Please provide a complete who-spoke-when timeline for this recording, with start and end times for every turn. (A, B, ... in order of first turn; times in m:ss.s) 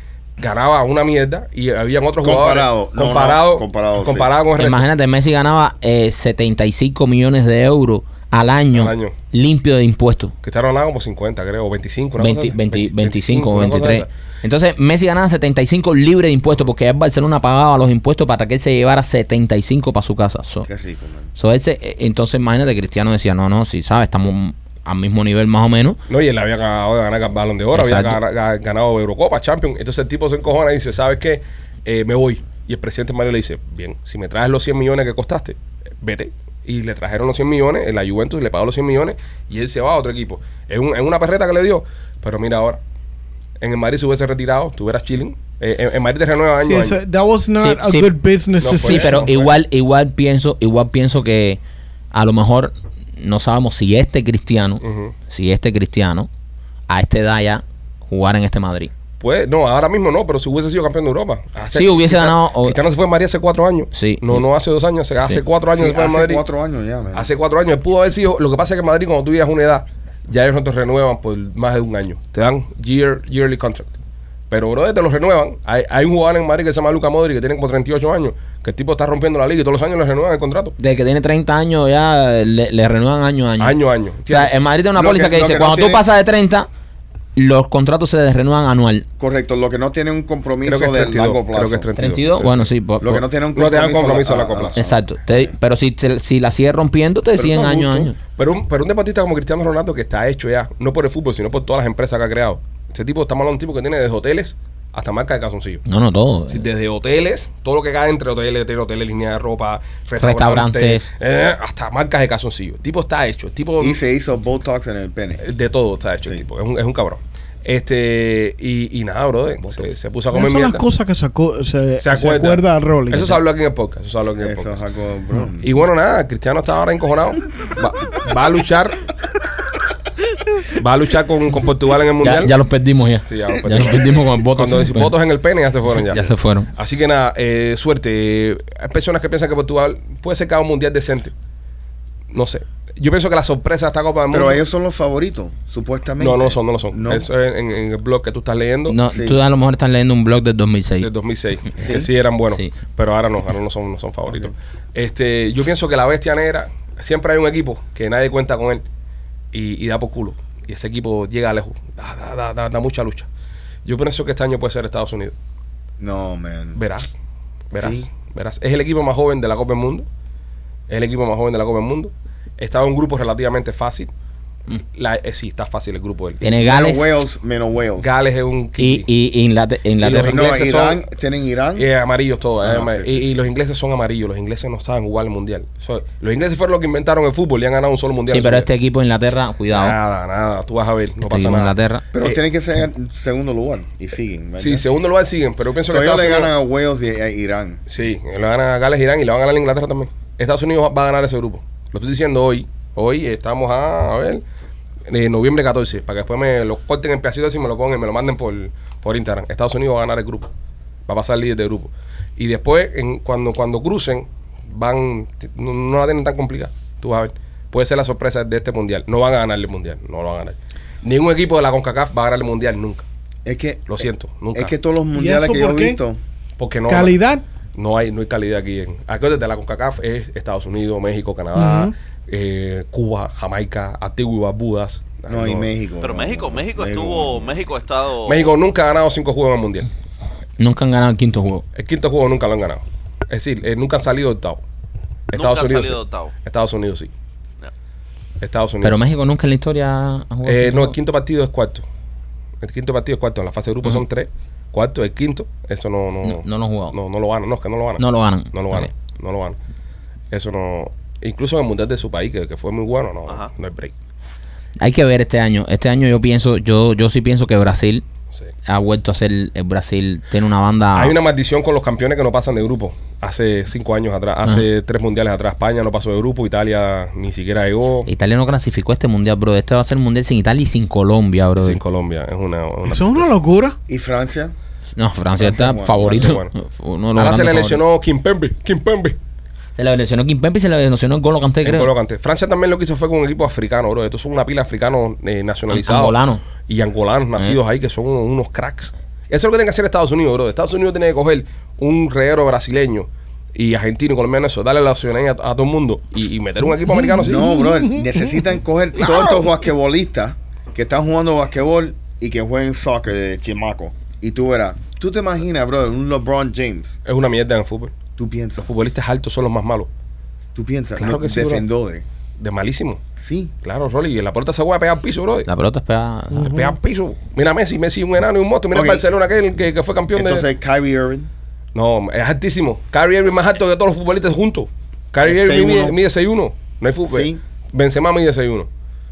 0:00.4-0:04.8 A
0:02.2-0:04.3 B
0:04.6-0:10.3 C
0:08.7-0:09.2 A
0:10.4-0:14.1 A
0:12.2-0:20.7 C
0:20.7-0:21.3 B
0:21.4-0:26.0 C
0:26.1-0:42.8 A
0:27.7-0:28.2 C
0:43.6-0:47.0 A
0:46.6-0:49.3 D
0:47.6-0:51.6 C
0:48.6-0:49.5 A
0:52.1-0:56.3 C
0:54.8-0:55.1 A
0:56.9-0:58.9 C
0:59.2-1:06.4 A
1:01.7-1:02.8 C
1:03.9-1:04.5 C
1:05.7-1:07.3 B
1:07.2-1:13.9 A
1:14.5-1:20.8 A
1:20.8-1:26.7 C
1:23.6-1:24.5 A
1:25.0-1:26.1 B
1:27.4-1:29.1 C
1:29.2-1:31.9 B
1:30.6-1:32.7 A
1:32.0-1:33.2 C
1:33.0-1:35.5 B
1:33.5-1:34.8 A
1:34.8-1:38.2 C
1:37.4-1:38.1 B
1:38.4-1:45.8 A
1:45.9-1:46.6 C
1:46.5-1:54.0 A
1:50.2-1:51.1 C
1:53.8-1:55.4 B
1:55.4-2:00.8 A
2:00.3-2:03.4 D
2:02.0-2:04.8 A
2:04.4-2:05.7 B
2:05.6-2:09.0 A
2:10.7-2:12.5 A
2:12.2-2:15.1 C
2:13.3-2:21.3 A
2:16.1-2:16.7 C
2:22.3-2:24.6 A
2:24.3-2:27.3 B
2:26.2-2:29.0 A
2:28.9-2:31.1 C
2:29.1-2:29.4 B
2:31.0-2:38.8 A
2:31.8-2:32.1 B
2:39.5-2:43.3 A
2:43.8-2:45.3 A
2:46.0-2:46.8 B
2:46.8-2:47.2 A
2:47.7-2:50.1 A
2:47.7-2:48.1 B
2:50.9-2:54.1 A
2:55.0-2:56.4 A
2:56.4-2:57.1 C
2:56.6-2:58.1 B
2:58.0-2:59.1 A
2:58.8-3:00.5 C
3:00.0-3:01.0 A
3:00.2-3:01.9 B
3:01.8-3:08.7 A
3:02.6-3:03.2 B
3:08.3-3:10.0 C
3:09.7-3:12.4 A
3:11.3-3:12.0 C
3:12.1-3:14.9 B
3:14.6-3:16.5 A
3:15.9-3:17.8 B
3:17.9-3:24.4 A
3:25.1-3:30.5 A
3:31.1-3:43.0 A
3:43.4-3:46.2 B
3:43.9-3:44.7 A
3:45.2-3:46.0 D
3:46.6-3:47.2 A
3:46.9-3:47.4 D
3:47.8-3:55.7 A
3:51.6-3:51.9 D
3:55.3-3:57.6 B
3:56.0-3:58.5 E
3:58.2-3:59.9 A
4:00.6-4:01.6 C
4:01.8-4:04.6 A
4:05.3-4:07.1 A
4:05.3-4:06.3 E
4:08.4-4:09.0 A
4:08.8-4:10.9 C
4:10.5-4:11.8 A
4:12.6-4:19.6 A
4:16.2-4:17.0 C
4:18.0-4:18.9 C
4:20.3-4:23.9 A
4:24.8-4:28.0 C
4:28.7-4:31.1 C
4:31.0-4:38.1 A
4:38.1-4:41.8 C
4:41.6-4:43.3 A
4:42.9-4:43.8 D
4:43.9-4:44.5 B
4:45.0-4:47.8 C
4:45.4-4:46.3 B
4:45.9-4:46.5 A
4:47.2-4:49.2 A
4:49.8-4:51.9 C
4:51.6-5:07.5 A
4:55.7-4:56.4 C
5:07.0-5:08.1 D
5:07.2-5:17.0 B
5:09.0-5:09.4 A
5:17.1-5:17.9 A
5:18.2-5:18.7 B
5:18.6-5:19.9 A
5:20.6-5:22.0 B
5:21.0-5:21.7 A
5:22.4-5:23.0 A
5:23.2-5:23.5 B
5:23.6-5:25.5 A
5:25.5-5:26.5 C
5:26.3-5:26.8 D
5:26.4-5:30.4 A
5:28.7-5:29.0 B
5:30.2-5:31.3 B
5:31.8-5:38.7 A
5:35.2-5:36.0 B
5:37.1-5:37.4 B